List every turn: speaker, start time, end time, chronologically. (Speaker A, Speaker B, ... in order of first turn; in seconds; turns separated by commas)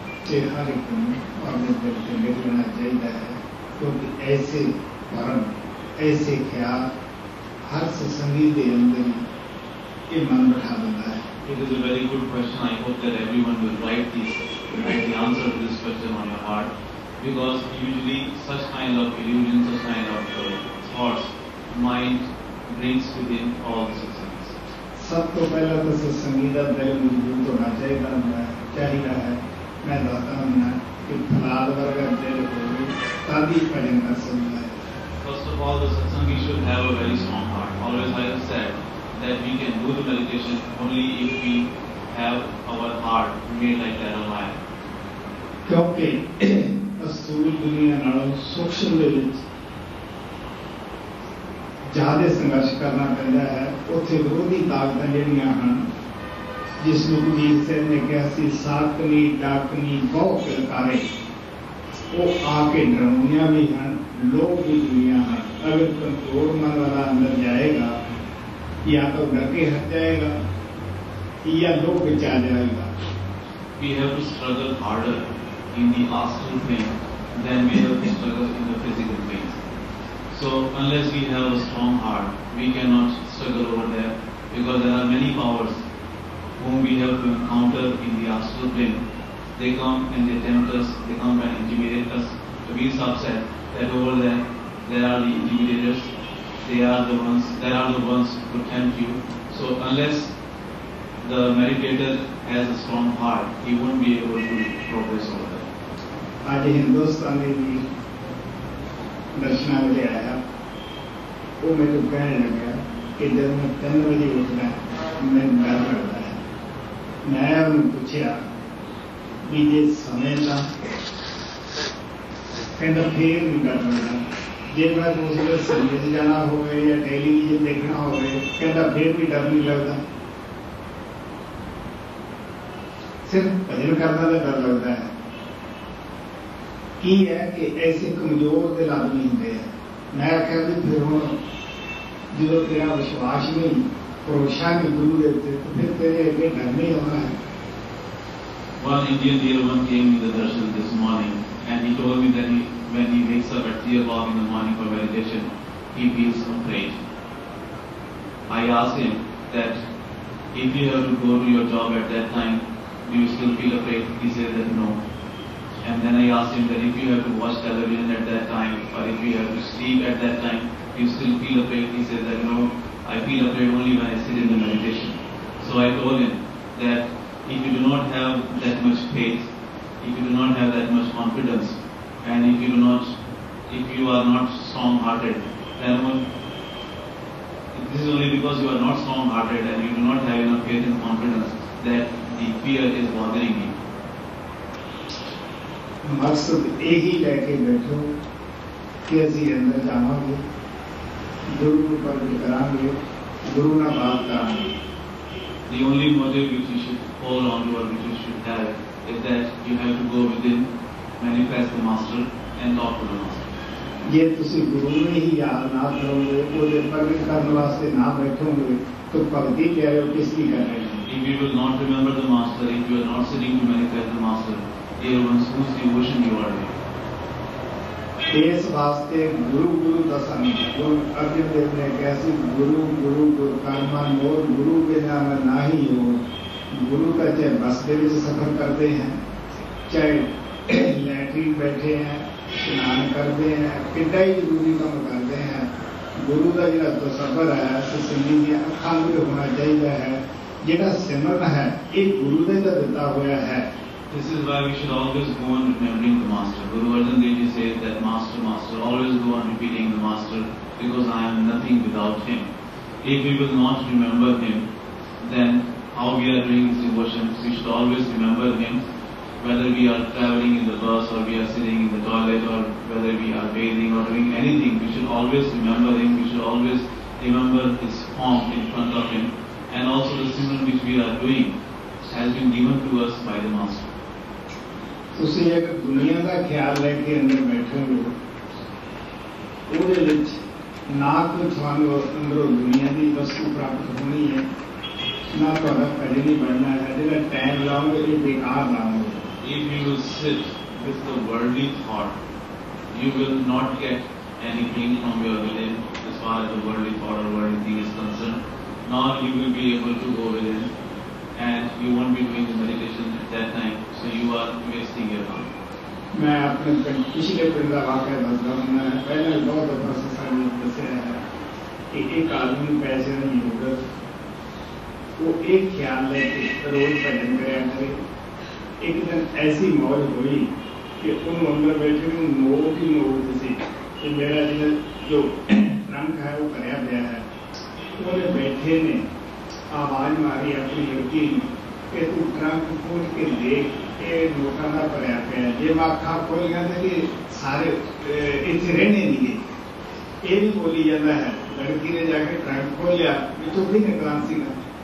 Speaker A: 0.2-6.9, Speaker A: 7.6-9.2, Speaker A: 10.1-11.2, Speaker B: 11.4-24.5, Speaker A: 24.9-34.7, Speaker B: 35.2-44.6, Speaker A: 45.6-49.4, Speaker A: 51.9-55.8, Speaker A: 56.8-61.1, Speaker A: 62.1-67.9, Speaker A: 68.8-70.3, Speaker A: 71.4-72.9, Speaker B: 73.8-79.6, Speaker B: 80.3-85.8, Speaker B: 86.6-89.0, Speaker B: 89.6-96.1, Speaker B: 96.6-100.3, Speaker B: 101.2-105.6, Speaker A: 106.4-107.9, Speaker A: 109.3-110.4, Speaker A: 111.6-116.4, Speaker A: 117.2-118.4, Speaker A: 119.4-120.7, Speaker A: 122.8-130.0, Speaker A: 133.2-135.1, Speaker A: 137.0-141.3, Speaker A: 142.3-147.3, Speaker B: 148.8-157.0, Speaker B: 158.5-159.8, Speaker B: 160.5-165.0, Speaker B: 165.8-179.5, Speaker B: 180.0-183.1, Speaker B: 183.7-186.2, Speaker B: 187.7-193.8, Speaker A: 196.0-198.1, Speaker A: 199.1-200.4, Speaker A: 201.5-204.7, Speaker B: 205.7-210.6, Speaker B: 211.2-213.4, Speaker A: 214.1-221.0, Speaker B: 221.1-226.7, Speaker A: 228.3-239.2, Speaker A: 239.9-253.7, Speaker B: 254.1-262.5, Speaker B: 263.0-264.6, Speaker B: 265.2-268.8, Speaker B: 269.4-281.5, Speaker B: 282.1-283.9, Speaker A: 285.1-288.1, Speaker A: 289.7-294.5, Speaker A: 295.3-299.2, Speaker B: 299.4-302.1, Speaker B: 302.9-310.7, Speaker B: 311.3-315.5, Speaker A: 316.1-321.2, Speaker A: 321.9-323.8, Speaker A: 325.2-328.0, Speaker A: 328.8-337.2, Speaker A: 338.0-339.0, Speaker A: 339.7-349.4, Speaker A: 350.2-354.6